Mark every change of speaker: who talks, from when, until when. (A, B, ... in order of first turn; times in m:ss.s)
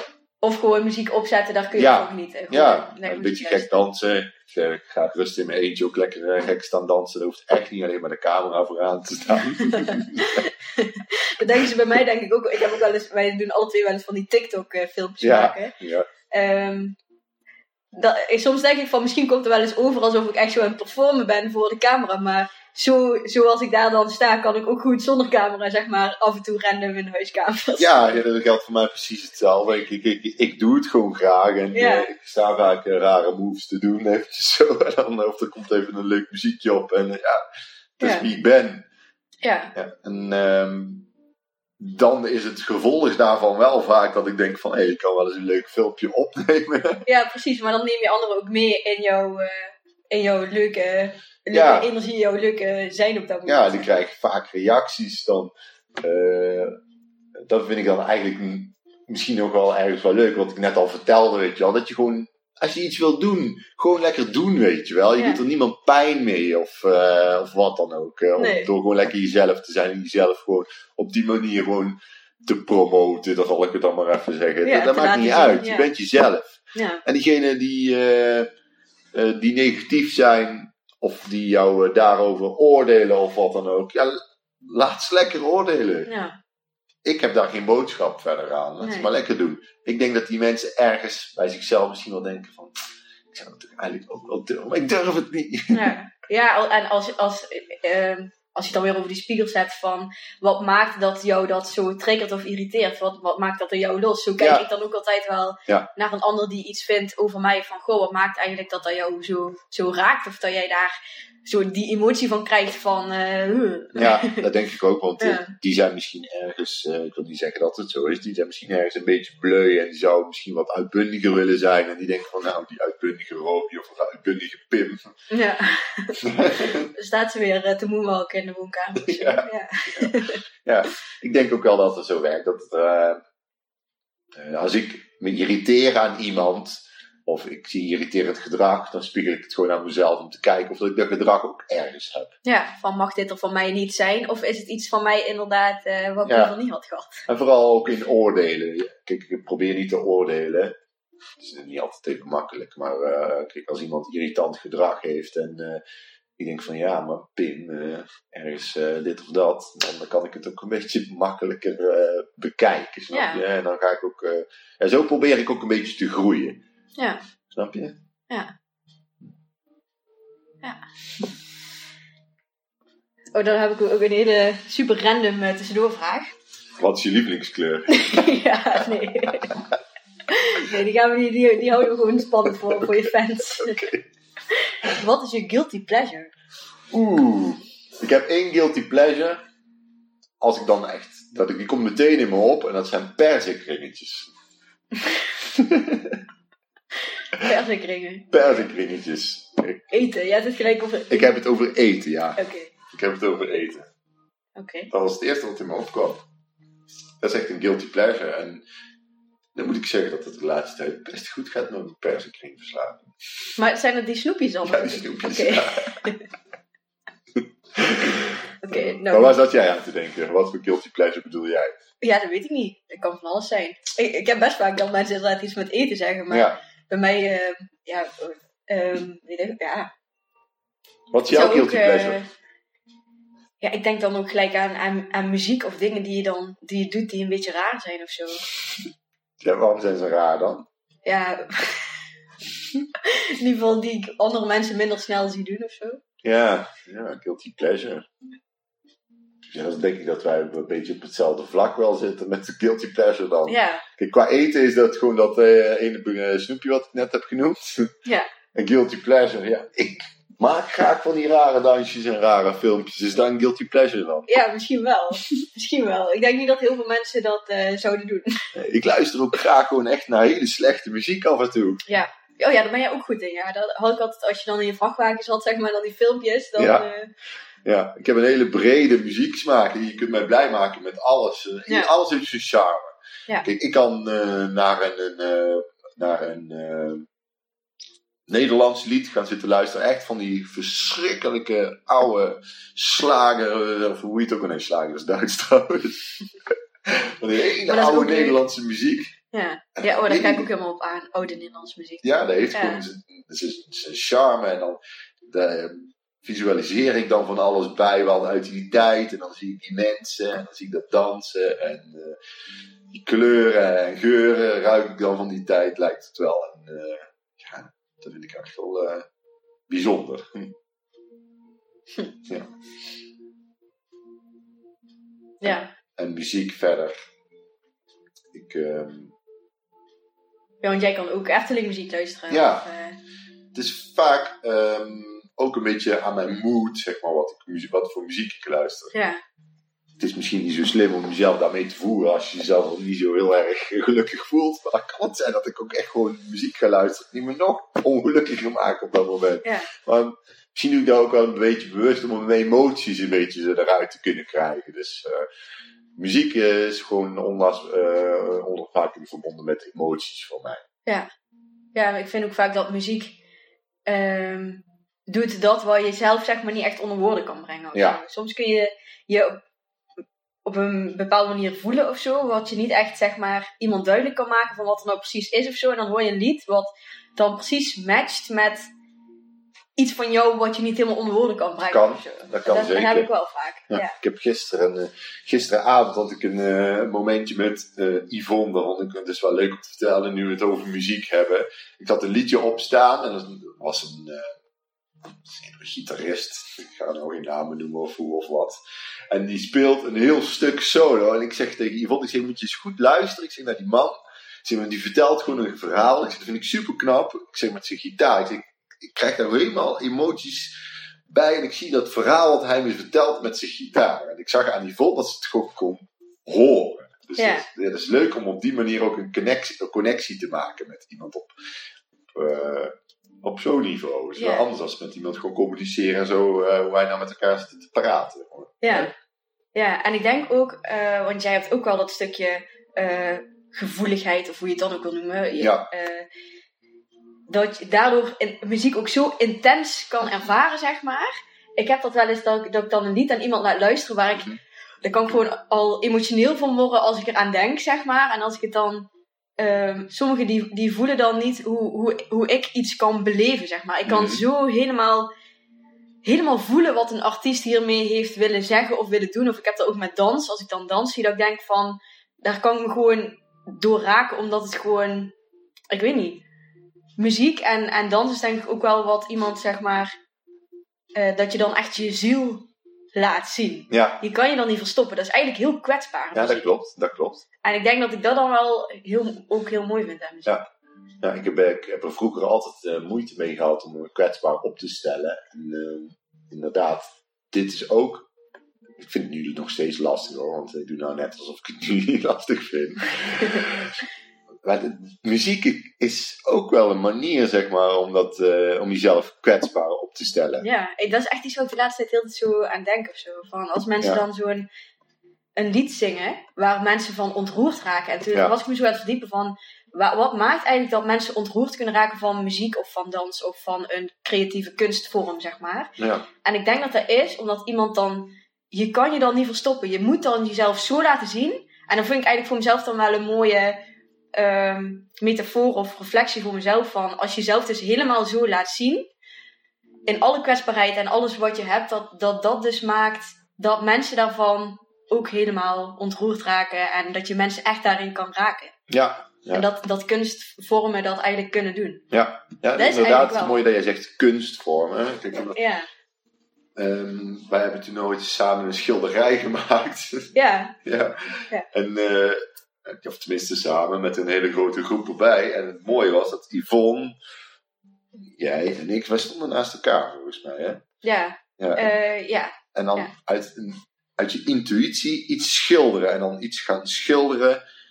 0:00.4-0:03.8 A
0:01.7-0:10.5 B
0:09.7-0:15.7 A
0:15.2-0:16.1 B
0:16.3-0:17.0 A
0:17.9-0:28.0 A
0:27.8-0:37.4 B
0:31.7-0:32.1 A
0:38.0-0:38.8 B
0:38.0-0:38.2 A
0:39.4-0:39.7 A
0:39.7-0:41.1 B
0:41.8-0:47.0 B
0:47.0-0:53.9 A
0:51.5-0:51.9 B
0:53.4-0:56.7 B
0:57.4-1:18.5 B
1:08.4-1:08.7 A
1:14.6-1:15.9 A
1:16.7-1:17.0 A
1:19.1-1:26.1 B
1:26.0-1:26.4 A
1:27.0-1:35.9 B
1:28.8-1:29.1 A
1:35.7-1:54.5 A
1:44.4-1:44.6 B
1:53.9-2:05.0 B
1:55.2-1:55.5 A
2:05.3-2:10.4 A
2:06.2-2:06.9 B
2:09.0-2:13.2 B
2:14.4-2:22.3 B
2:22.4-2:27.2 A
2:26.2-2:26.5 B
2:27.3-2:30.7 B
2:31.4-2:35.8 B
2:36.4-2:46.6 B
2:43.1-2:43.4 A
2:47.0-2:47.2 A
2:47.5-2:47.9 B
2:53.3-2:56.3 A
2:56.8-2:58.3 B
2:57.9-2:59.5 A
3:00.3-3:03.8 A
3:02.6-3:04.0 B
3:04.5-3:06.3 A
3:06.9-3:09.4 B
3:10.4-3:14.3 B
3:15.3-3:16.2 B
3:17.3-3:18.3 A
3:18.3-3:20.0 B
3:19.9-3:21.3 A
3:21.1-3:23.9 B
3:22.4-3:22.7 A
3:24.6-3:24.9 A
3:24.9-3:26.2 B
3:27.2-3:28.6 B
3:29.5-3:33.1 B
3:33.6-3:36.2 A
3:34.6-3:36.0 B
3:37.7-3:41.7 B
3:38.6-3:39.4 A
3:42.0-3:49.9 A
3:46.3-3:46.6 B
3:51.1-3:52.2 B
3:51.3-3:52.3 A
3:53.6-3:58.4 A
3:59.4-4:00.6 B
4:01.0-4:02.0 A
4:03.0-4:06.0 A
4:06.2-4:08.0 B
4:09.5-4:17.9 B
4:13.5-4:13.8 A
4:18.5-4:24.3 B
4:24.3-4:28.5 A
4:28.5-4:31.8 B
4:31.9-4:37.1 A
4:36.6-4:36.9 B
4:37.6-4:47.0 B
4:48.3-4:56.2 B
4:56.8-4:59.1 B
4:57.7-4:58.4 A
4:59.3-5:02.8 A
4:59.8-5:00.4 B
5:02.0-5:12.2 B
5:12.9-5:19.0 B
5:19.7-5:20.5 B
5:25.4-5:25.7 A
5:25.4-5:26.9 B
5:28.3-5:29.1 B
5:30.6-5:33.0 A
5:32.3-5:32.6 B
5:33.5-5:38.9 B
5:38.9-5:39.2 A
5:40.0-5:55.2 B
5:49.4-5:49.7 A
5:56.0-6:00.6 B
6:01.7-6:03.2 A
6:03.8-6:09.4 A
6:07.7-6:08.0 B
6:10.4-6:18.6 A
6:19.8-6:24.0 A
6:21.7-6:23.1 B
6:23.7-6:34.4 B
6:35.2-6:38.6 B
6:39.1-6:50.5 B
6:51.1-7:01.3 B
6:57.2-6:57.4 A
7:02.1-7:08.9 B
7:04.2-7:04.4 A
7:08.6-7:08.9 A
7:09.5-7:16.1 A
7:15.4-7:15.7 B
7:17.3-7:24.3 A
7:24.8-7:28.9 A
7:29.4-7:35.1 A
7:33.9-7:34.2 B
7:36.0-7:45.1 A
7:45.7-7:46.2 A
7:47.0-7:49.9 A
7:51.0-7:56.5 A
7:53.7-7:54.0 B
7:56.1-7:57.2 B
7:57.4-8:00.4 A
8:01.0-8:08.1 B
8:08.8-8:13.8 B
8:14.4-8:20.4 B
8:20.4-8:24.5 A
8:25.4-8:43.6 A
8:35.8-8:36.0 B
8:44.1-8:48.9 A
8:49.9-8:58.5 A
8:58.7-8:59.4 B
8:59.3-9:01.8 A
9:01.9-9:05.4 B
9:02.6-9:03.4 A
9:05.1-9:05.7 A
9:06.6-9:10.1 B
9:10.1-9:10.6 A
9:10.6-9:16.9 B
9:18.0-9:20.6 B
9:20.8-9:22.9 A
9:21.4-9:21.7 B
9:22.5-9:27.4 B